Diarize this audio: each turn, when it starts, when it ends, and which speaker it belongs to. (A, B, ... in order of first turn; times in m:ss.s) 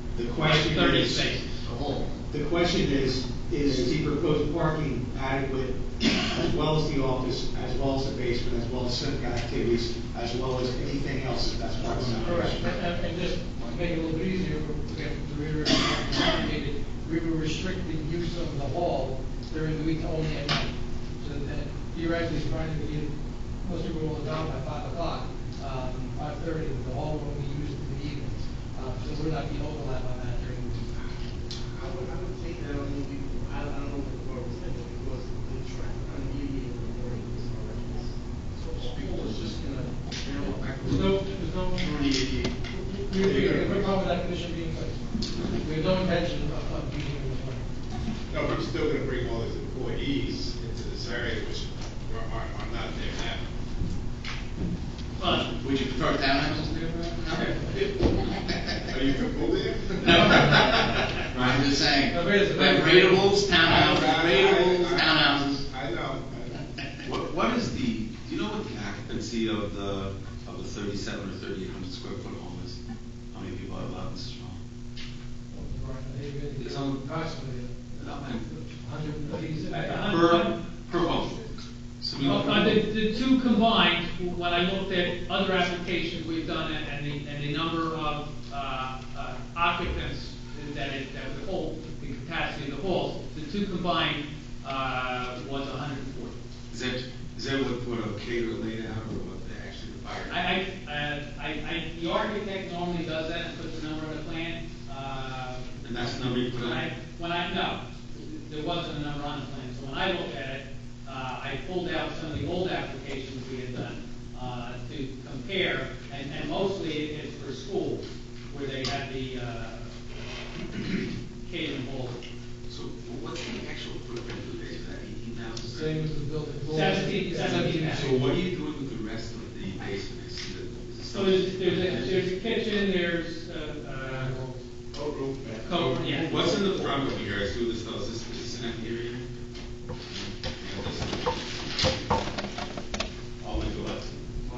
0:00.1-0:01.3 A
0:00.4-0:01.5 B
0:01.6-0:02.1 C
0:02.3-0:12.7 A
0:03.7-0:03.9 C
0:12.2-0:30.9 D
0:32.0-0:37.3 E
0:38.7-0:39.4 D
0:40.4-0:42.0 D
0:42.7-0:45.0 D
0:43.2-0:43.9 F
0:45.6-0:47.6 D
0:48.3-0:53.5 F
0:55.2-0:55.5 B
0:55.2-0:58.8 C
0:58.8-1:01.1 F
1:00.0-1:05.6 C
1:01.3-1:01.6 G
1:02.1-1:03.4 D
1:03.5-1:06.6 F
1:07.0-1:12.8 G
1:13.3-1:14.6 G
1:15.5-1:20.2 D
1:16.6-1:17.0 G
1:18.0-1:18.5 G
1:19.7-1:20.5 B
1:20.1-1:21.4 G
1:22.0-1:22.7 G
1:22.2-1:36.3 B
1:22.2-1:22.7 D
1:36.7-1:40.5 G
1:40.3-1:59.9 B
1:45.8-1:46.8 G
2:01.4-2:02.2 B
2:02.7-2:06.0 G
2:05.6-2:08.2 D
2:06.7-2:08.1 B
2:07.4-2:12.4 G
2:11.1-2:14.4 B
2:14.0-2:14.6 D
2:15.0-2:19.2 G
2:15.6-2:16.4 B
2:16.0-2:16.7 D
2:20.1-2:21.4 G
2:23.4-2:24.2 G